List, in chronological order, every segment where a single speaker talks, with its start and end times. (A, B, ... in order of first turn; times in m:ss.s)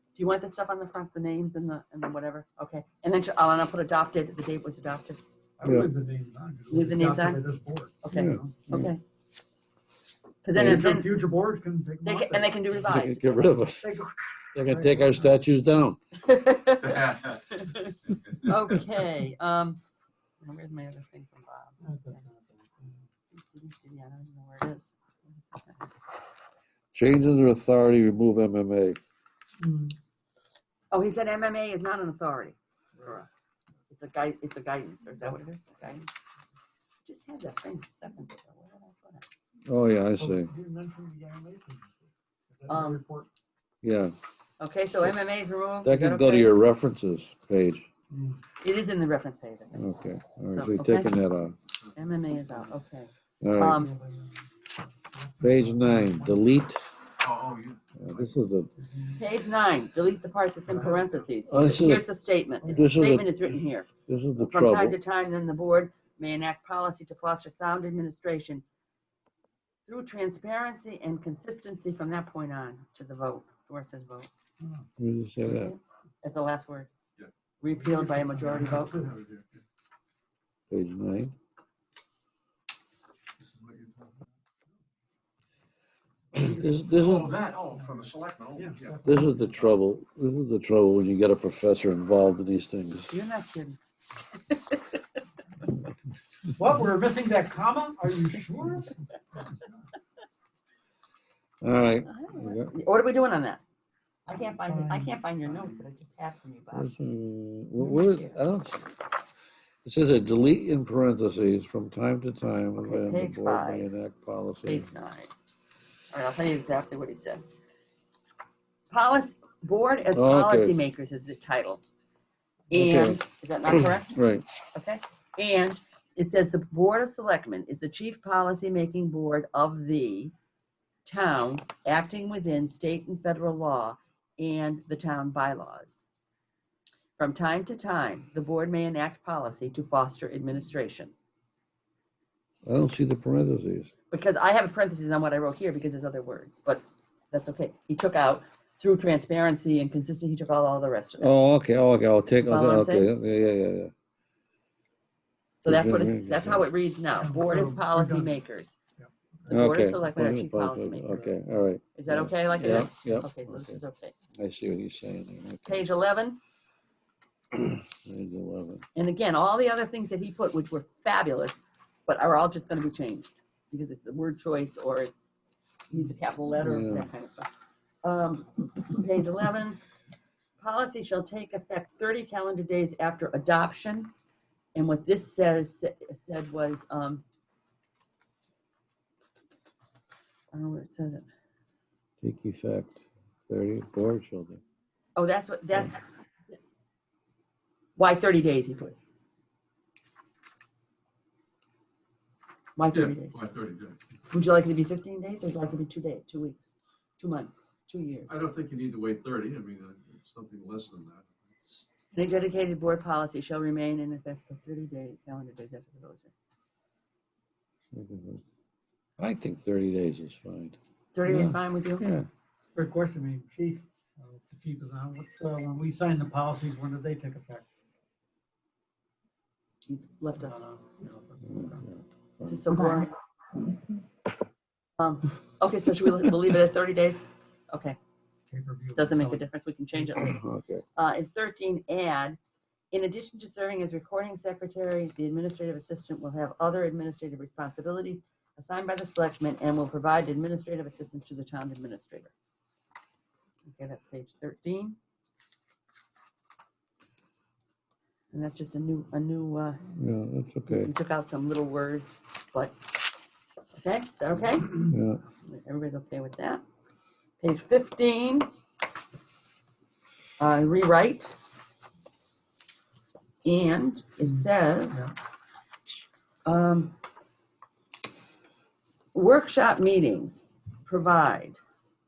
0:00.2-0:05.2 A
0:05.6-0:08.8 B
0:05.6-0:05.9 C
0:06.7-0:07.4 A
0:08.0-0:09.0 A
0:08.1-0:08.9 C
0:10.4-0:11.3 A
0:10.5-0:12.8 B
0:12.0-0:13.7 A
0:12.8-0:13.9 C
0:13.8-0:15.4 B
0:14.6-0:16.0 C
0:16.2-0:19.8 A
0:16.8-0:17.4 D
0:20.4-0:22.2 A
0:21.8-0:23.0 B
0:23.3-0:25.9 A
0:26.9-0:29.0 C
0:29.6-0:30.0 B
0:30.9-0:36.1 A
0:37.0-0:39.3 A
0:39.7-0:40.5 C
0:40.2-0:43.3 B
0:42.7-0:43.0 A
0:43.8-0:44.1 C
0:44.6-0:46.6 A
0:45.8-0:47.9 C
0:48.1-0:48.4 B
0:48.6-0:49.9 A
0:49.8-0:51.6 C
0:50.5-0:51.2 A
0:51.9-0:53.9 A
0:53.4-0:53.8 C
0:53.8-0:54.5 B
0:55.1-0:56.5 B
0:55.4-0:56.8 C
0:57.2-0:58.2 D
0:58.0-0:58.7 C
0:58.8-0:59.2 B
0:59.2-1:08.6 A
1:00.7-1:01.1 B
1:01.5-1:02.1 C
1:02.6-1:03.3 C
1:04.1-1:05.0 C
1:09.9-1:14.3 A
1:14.6-1:14.9 B
1:15.0-1:15.8 C
1:15.4-1:16.9 A
1:17.6-1:19.0 A
1:17.8-1:19.3 B
1:20.7-1:21.4 C
1:23.4-1:24.2 D
1:26.3-1:27.4 C
1:26.9-1:29.0 D
1:27.8-1:29.6 B
1:29.0-1:33.2 C
1:33.1-1:33.8 A
1:34.5-1:35.0 A
1:36.6-1:39.0 B
1:41.6-1:42.7 C
1:42.0-1:43.6 A
1:44.3-1:46.9 A
1:44.6-1:45.1 B
1:46.7-1:48.9 C
1:47.8-1:48.4 A
1:49.8-1:54.9 C
1:52.8-1:53.9 A
1:54.6-1:55.3 A
1:56.1-1:57.4 A
1:58.9-2:01.8 A
2:00.1-2:00.8 C
2:02.7-2:04.2 A
2:02.7-2:04.5 C
2:04.7-2:10.3 A
2:11.0-2:16.1 A
2:17.2-2:21.1 A
2:22.7-2:23.9 C
2:24.1-2:31.3 A
2:31.2-2:33.9 C
2:32.4-2:33.1 A
2:35.6-2:38.8 A
2:35.6-2:36.7 C
2:37.2-2:38.4 B
2:39.0-2:39.6 B
2:39.5-2:41.4 A
2:39.5-2:43.8 C
2:42.0-2:44.2 A
2:44.4-2:45.9 C
2:45.6-2:46.4 A
2:47.5-2:48.8 C
2:49.0-2:55.3 A
2:55.9-2:57.5 A
2:56.6-2:57.1 C
2:58.0-2:59.8 A
3:00.6-3:04.1 A
3:04.8-3:07.2 A
3:10.5-3:11.3 A
3:12.2-3:14.6 C
3:15.2-3:16.0 A
3:18.0-3:19.0 A
3:22.8-3:23.4 A
3:22.9-3:24.0 D
3:24.3-3:28.4 A
3:28.3-3:31.8 D
3:32.1-3:36.3 A
3:37.9-3:38.4 C
3:39.2-3:42.3 C
3:41.1-3:42.1 A
3:42.8-3:47.7 B
3:49.9-3:50.7 A
3:50.4-3:51.9 B
3:51.4-3:52.7 C
3:52.4-3:53.1 A
3:55.0-3:58.0 A
3:58.5-3:59.4 B
3:59.0-4:00.4 A
4:00.2-4:00.8 C
4:01.0-4:02.4 A
4:02.9-4:12.3 A
4:13.7-4:15.0 A
4:18.3-4:19.8 A
4:20.0-4:20.9 C
4:20.7-4:23.0 A
4:23.8-4:26.6 A
4:24.9-4:25.2 C
4:27.4-4:28.5 A
4:30.4-4:31.4 A
4:33.4-4:35.0 A
4:36.5-4:36.9 A
4:39.1-4:41.6 A